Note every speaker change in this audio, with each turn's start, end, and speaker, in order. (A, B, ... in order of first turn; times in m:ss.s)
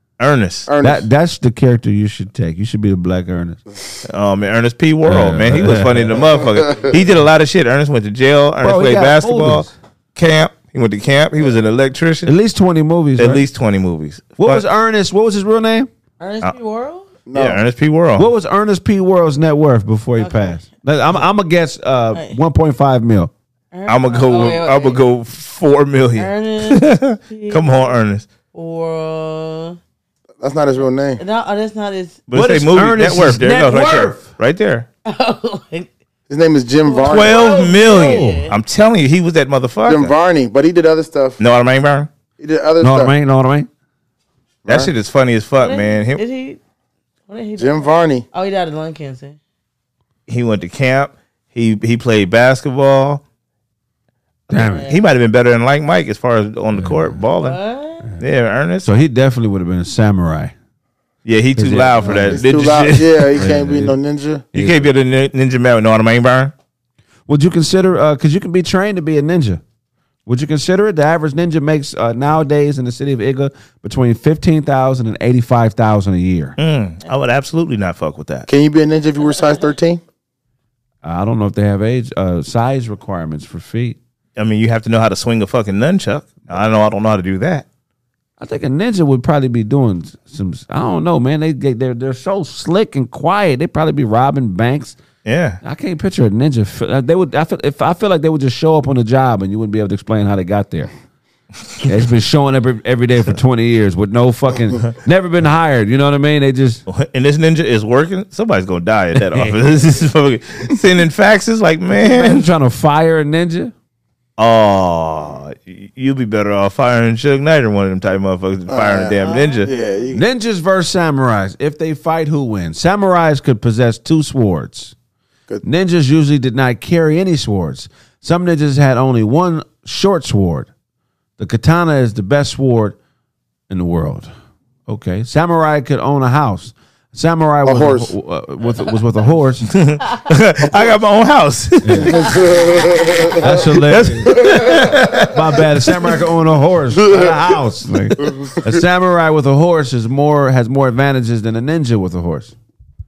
0:00.2-0:00.7 A
0:00.6-0:01.0 B
0:00.8-0:03.6 C
0:04.0-0:12.3 A
0:05.0-0:06.2 C
0:08.6-0:09.7 C
0:12.2-0:13.4 C
0:13.2-0:14.6 A
0:14.4-0:15.9 C
0:16.2-0:17.2 D
0:17.3-0:17.6 B
0:17.3-0:18.3 A
0:18.2-0:23.3 C
0:20.2-0:20.6 D
0:22.1-0:22.4 D
0:23.7-0:25.0 D
0:23.8-0:28.3 A
0:26.1-0:27.9 D
0:28.5-0:29.8 D
0:30.4-0:31.2 B
0:31.2-0:32.2 D
0:32.3-0:34.9 A
0:32.3-0:34.2 C
0:35.0-0:35.9 D
0:36.3-0:37.6 B
0:36.8-0:38.5 D
0:37.0-0:40.1 A
0:37.8-0:38.4 C
0:39.8-0:41.4 B
0:41.4-0:42.1 A
0:42.4-0:43.1 B
0:42.8-0:43.7 C
0:44.6-0:44.9 B
0:44.7-0:46.2 A
0:45.6-0:46.6 D
0:47.3-0:49.4 D
0:47.6-0:48.2 B
0:50.3-0:53.2 A
0:54.5-0:54.9 C
0:54.6-0:55.0 D
0:54.8-0:57.6 A
0:56.7-0:57.1 C
0:57.4-0:58.1 D
0:58.2-0:58.9 A
0:58.8-1:00.5 C
1:01.2-1:03.4 A
1:01.6-1:02.4 C
1:02.3-1:04.5 B
1:03.4-1:04.0 C
1:04.5-1:04.9 C
1:04.5-1:06.5 A
1:07.3-1:09.6 C
1:10.2-1:16.6 C
1:16.6-1:18.5 A
1:18.5-1:20.0 B
1:21.0-1:24.0 C
1:24.4-1:27.6 A
1:28.4-1:35.0 C
1:35.2-1:35.6 A
1:35.6-1:40.9 C
1:41.8-1:46.8 C
1:46.9-1:52.5 A
1:49.3-1:49.6 C
1:51.9-1:53.7 C
1:54.4-1:59.7 A
1:58.7-2:00.2 B
1:59.2-1:59.6 D
2:00.1-2:04.9 C
2:05.6-2:10.7 C
2:11.4-2:13.0 C
2:13.7-2:14.3 C
2:14.9-2:19.7 C
2:17.6-2:18.1 B
2:19.7-2:25.6 A
2:21.8-2:22.2 C
2:22.1-2:23.4 B
2:23.4-2:24.5 C
2:25.2-2:32.5 C
2:27.0-2:27.3 B